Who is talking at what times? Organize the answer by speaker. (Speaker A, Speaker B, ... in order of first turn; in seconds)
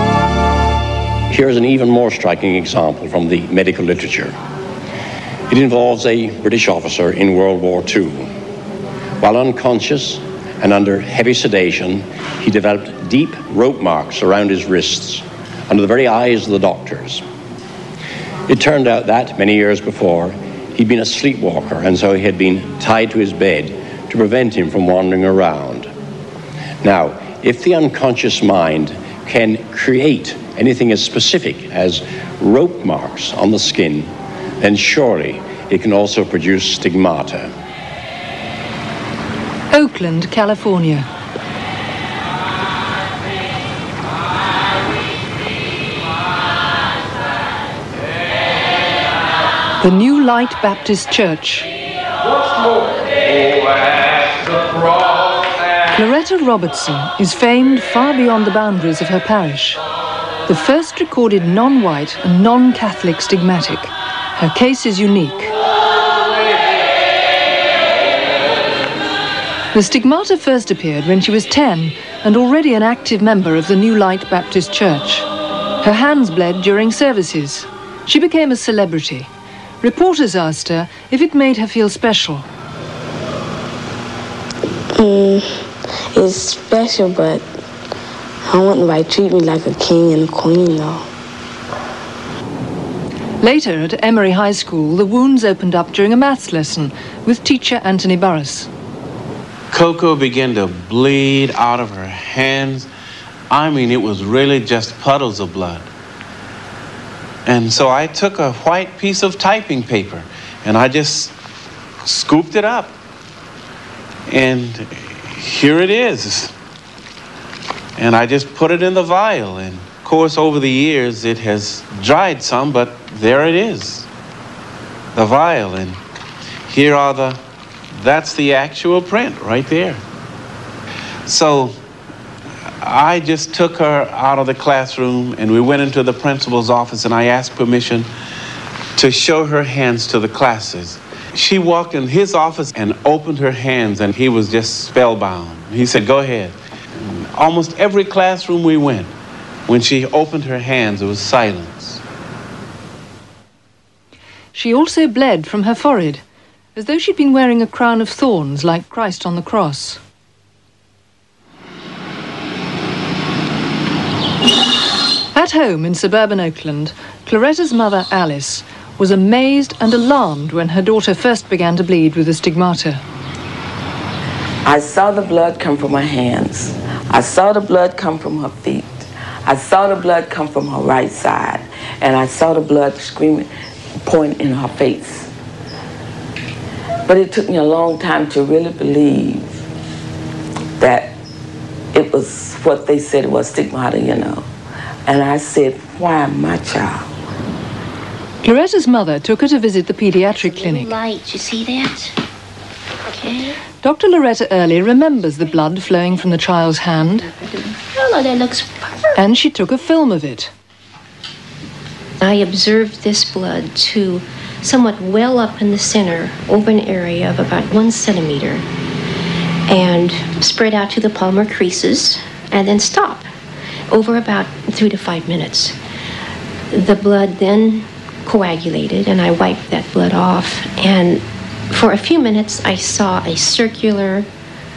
Speaker A: 1.3-4.3, 5.5-8.3, 9.2-17.2, 18.5-25.9, 26.8-37.5
Speaker B: 39.7-41.1, 49.8-51.7, 55.9-59.8, 60.5-65.5, 69.7-75.2, 75.8-79.3, 79.8-82.5, 93.4-98.7, 154.5-156.2, 156.7-160.0, 165.3-173.0, 198.4-200.9, 203.8-207.3, 209.1-210.5
Speaker C: 85.0-87.5, 88.4-91.1
Speaker D: 99.7-102.9, 103.5-105.9, 107.5-111.3, 112.0-112.9, 114.3-116.5, 118.0-124.0, 125.1-126.0, 126.7-127.4, 127.9-130.0, 131.2-131.8, 132.8-138.1, 138.9-149.1, 149.7-152.0
Speaker E: 174.6-183.5, 184.0-185.3, 187.0-189.6, 190.8-191.1, 191.9-194.5, 195.1-197.1
Speaker F: 200.3-202.1, 203.1-203.5, 207.3-209.0, 212.2-218.6, 219.7-223.3, 223.9-225.8, 226.7-234.2